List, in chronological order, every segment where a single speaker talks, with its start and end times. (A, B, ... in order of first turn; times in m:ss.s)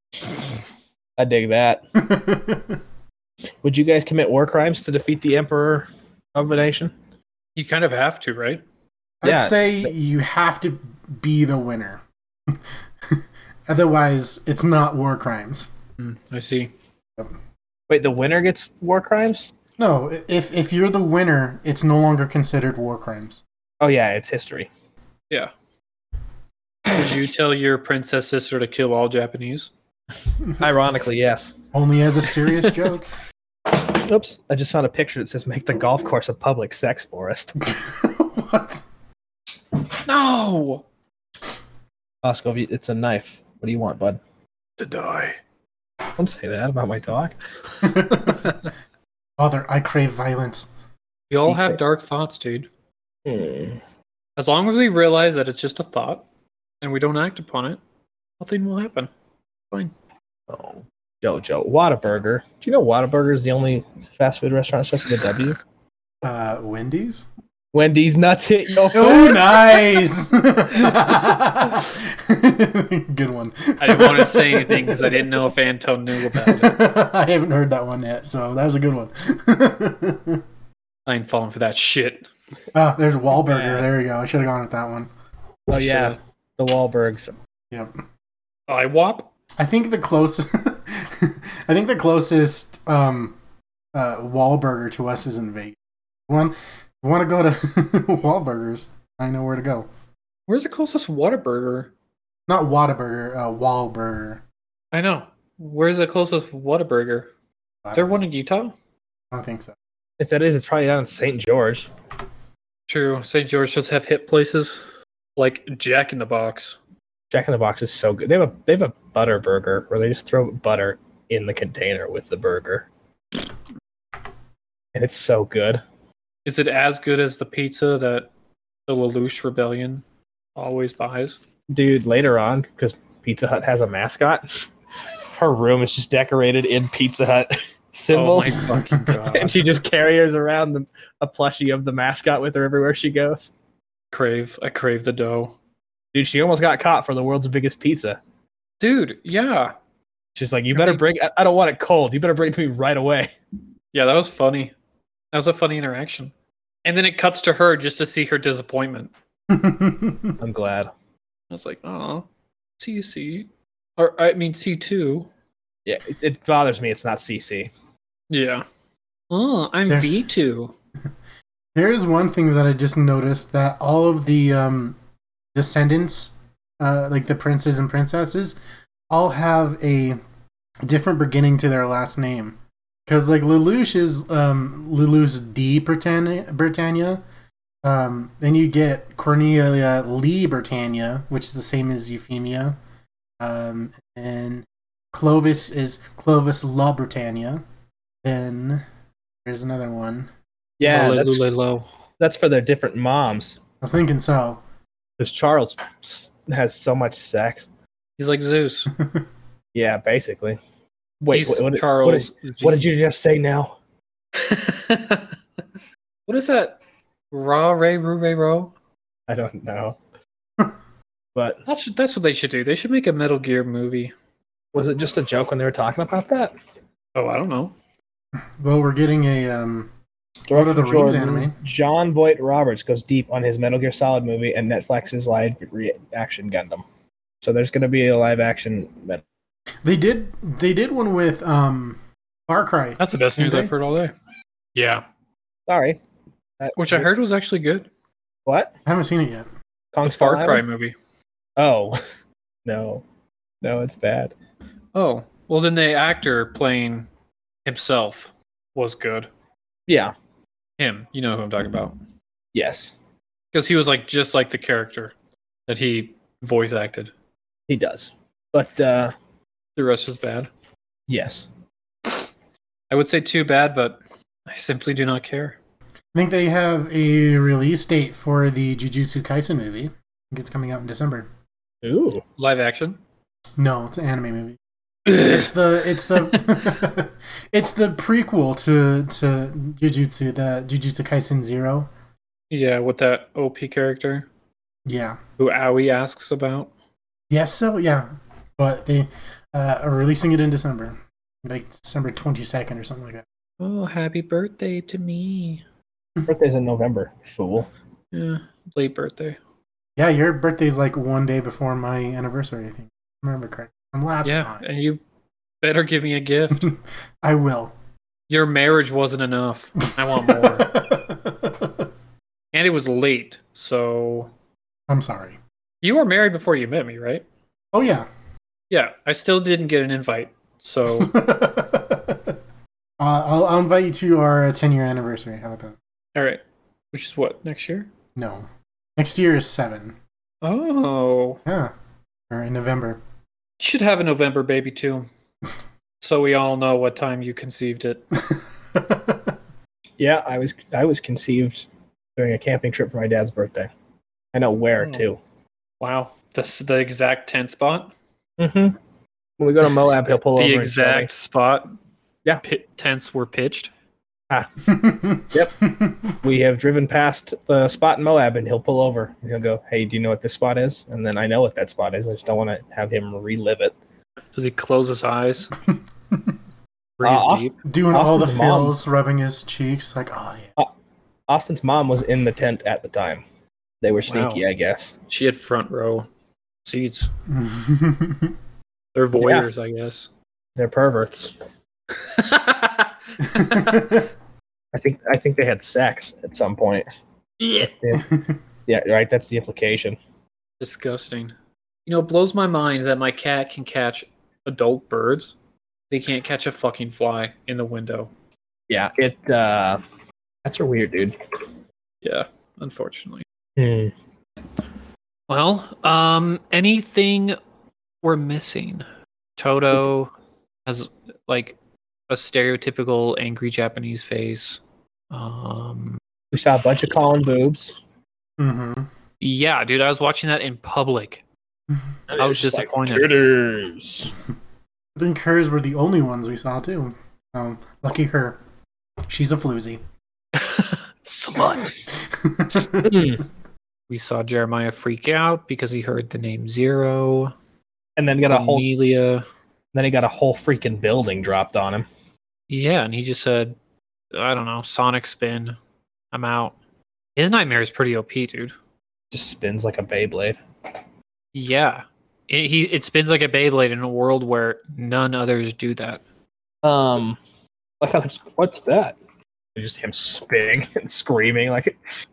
0:01.2-0:01.8 A
0:02.0-0:02.8 B
0:03.6-0:06.9 A
0:07.6-0:08.6 C
0:09.2-0:12.6 B
0:09.2-0:09.9 A
0:13.1-0:15.7 B
0:16.0-0:16.7 C
0:17.9-0:19.5 A
0:19.8-0:23.4 B
0:23.8-0:24.7 A
0:26.9-0:29.7 C
0:30.5-0:31.6 A
0:31.7-0:33.1 B
0:33.7-0:37.6 A
0:37.6-0:38.8 B
0:40.0-0:40.8 C
0:42.2-0:44.2 A
0:44.8-0:45.4 C
0:46.2-0:47.4 A
0:47.8-0:48.5 B
0:49.4-0:50.7 B
0:51.3-0:52.7 C
0:51.5-0:51.8 A
0:53.2-0:53.8 A
0:54.4-0:56.2 C
0:56.8-0:57.8 C
0:58.4-0:59.1 C
1:00.5-1:05.6 A
1:06.2-1:07.3 B
1:07.7-1:09.5 A
1:08.9-1:15.4 B
1:13.8-1:16.8 C
1:16.2-1:20.4 B
1:21.1-1:22.3 C
1:22.7-1:25.1 B
1:23.4-1:23.9 A
1:25.7-1:27.4 A
1:25.7-1:26.2 C
1:28.7-1:29.3 C
1:29.6-1:33.4 B
1:33.9-1:35.8 B
1:36.3-1:39.9 B
1:40.5-1:41.9 C
1:42.5-1:44.4 B
1:44.9-1:47.3 C
1:47.8-1:48.2 B
1:47.9-1:48.8 C
1:49.3-1:49.8 B
1:50.2-1:51.9 A
1:52.9-1:54.8 C
1:55.4-1:56.8 C
1:57.3-2:02.9 A
2:04.9-2:05.8 A
2:06.4-2:08.3 C
2:08.9-2:10.0 C
2:10.6-2:11.4 C
2:11.7-2:14.7 A
2:15.3-2:18.7 A
2:18.1-2:19.6 C
2:18.6-2:19.0 B
2:19.3-2:23.5 A
2:24.1-2:25.6 C
2:26.1-2:28.2 A
2:28.8-2:29.7 C
2:30.4-2:33.3 A
2:30.7-2:31.0 C
2:33.9-2:34.7 C
2:35.3-2:36.3 C
2:36.8-2:39.1 C
2:39.5-2:40.4 B
2:40.4-2:40.9 A
2:41.5-2:42.3 C
2:42.8-2:45.3 C
2:45.9-2:47.7 A
2:48.3-2:48.6 C
2:49.3-2:50.7 C
2:51.8-2:55.0 B
2:55.6-2:58.6 B
2:59.1-3:00.2 B
3:00.8-3:07.2 B
3:07.8-3:12.8 B
3:13.4-3:17.6 B
3:18.2-3:18.8 B
3:19.4-3:20.3 B
3:20.8-3:21.4 A
3:20.8-3:21.9 C
3:22.2-3:23.6 A
3:23.8-3:24.6 B
3:25.2-3:27.7 A
3:28.2-3:28.9 C
3:29.0-3:29.2 B
3:29.8-3:30.6 A
3:31.2-3:33.8 A
3:31.3-3:32.8 C
3:34.4-3:35.4 C
3:36.3-3:36.8 C
3:37.3-3:38.7 C
3:39.3-3:40.0 A
3:41.4-3:41.6 A
3:41.7-3:44.1 C
3:44.7-3:46.5 A
3:47.2-3:47.7 C
3:48.6-3:49.9 B
3:50.5-3:56.8 A
3:50.5-3:51.6 B
3:57.4-3:59.2 A
3:59.8-4:03.7 B
4:03.0-4:04.1 C
4:04.8-4:05.0 C
4:05.7-4:06.0 A
4:06.6-4:07.1 A
4:06.8-4:07.9 C
4:08.5-4:08.7 A
4:08.9-4:09.5 B
4:09.9-4:10.6 A
4:10.0-4:11.0 C
4:11.6-4:12.0 A
4:12.6-4:13.0 A
4:13.6-4:14.3 A
4:15.0-4:17.1 C
4:17.6-4:19.3 C
4:19.9-4:20.1 A
4:20.8-4:22.0 C
4:22.5-4:22.9 A
4:23.5-4:25.1 C
4:25.7-4:27.1 C
4:27.7-4:29.1 A
4:29.8-4:30.5 C
4:31.1-4:31.5 A
4:32.9-4:35.6 C
4:36.1-4:41.3 B
4:41.8-4:42.2 A
4:42.4-4:43.0 C
4:43.6-4:51.9 B
4:45.1-4:45.4 C
4:52.5-4:54.3 C
4:54.9-4:55.2 B
4:55.4-4:56.7 C
4:57.3-5:03.2 B
5:03.6-5:05.6 C
5:06.3-5:07.7 A
5:08.1-5:09.4 C
5:10.0-5:14.6 B
5:14.2-5:15.0 C
5:15.6-5:16.7 C
5:16.6-5:17.7 B
5:18.3-5:20.7 C
5:20.3-5:21.9 B
5:22.5-5:24.3 C
5:24.9-5:25.4 B
5:25.8-5:27.2 C
5:27.7-5:28.1 B
5:28.7-5:31.1 C
5:30.9-5:32.4 B
5:33.0-5:35.8 B
5:36.2-5:37.9 C
5:38.2-5:40.0 B
5:40.4-5:41.4 C
5:41.4-5:41.7 B
5:42.3-5:43.0 B
5:43.6-5:45.1 C
5:46.0-5:48.0 C
5:48.3-5:49.4 B
5:50.0-5:53.7 A
5:54.3-5:55.2 A
5:55.8-5:57.9 C
5:58.4-5:58.8 A
5:59.4-6:01.1 A
6:00.3-6:01.7 C
6:02.4-6:03.7 C
6:04.3-6:05.6 A
6:04.7-6:06.2 B
6:06.2-6:13.8 A
6:14.4-6:15.5 C
6:15.7-6:16.4 B
6:17.0-6:17.6 C
6:17.0-6:18.8 A
6:17.6-6:20.5 B
6:21.3-6:23.2 A
6:23.8-6:24.9 A
6:24.1-6:24.4 C
6:25.1-6:26.1 C
6:26.6-6:27.1 C
6:27.3-6:28.4 B
6:29.0-6:30.1 C
6:29.2-6:29.5 A
6:30.6-6:31.3 A
6:32.1-6:34.0 C
6:33.4-6:34.1 B
6:34.7-6:36.9 A
6:37.4-6:37.7 C
6:37.6-6:40.0 A
6:40.6-6:41.3 C
6:41.9-6:45.3 C
6:45.9-6:48.1 C
6:48.7-6:49.8 A
6:50.4-6:51.2 A
6:52.0-6:53.2 C
6:53.6-6:53.9 A
6:55.3-6:57.4 C
6:58.0-6:58.8 C
6:59.4-7:00.1 C
7:00.7-7:01.6 C
7:02.1-7:06.0 C
7:06.3-7:07.8 A
7:08.4-7:08.9 B
7:09.2-7:11.2 C
7:12.1-7:14.1 A
7:12.1-7:13.2 C
7:15.0-7:18.4 B
7:19.1-7:19.8 B
7:20.4-7:21.8 C
7:22.0-7:23.0 B
7:22.8-7:23.2 A
7:23.9-7:27.3 C
7:28.0-7:28.7 A
7:28.2-7:29.2 C
7:29.7-7:31.9 A
7:32.5-7:33.6 C
7:34.1-7:35.6 C
7:36.1-7:36.6 C
7:37.2-7:38.5 C
7:39.1-7:40.4 A
7:41.3-7:46.0 C
7:46.6-7:47.2 A
7:47.8-7:49.0 A
7:49.6-7:51.8 A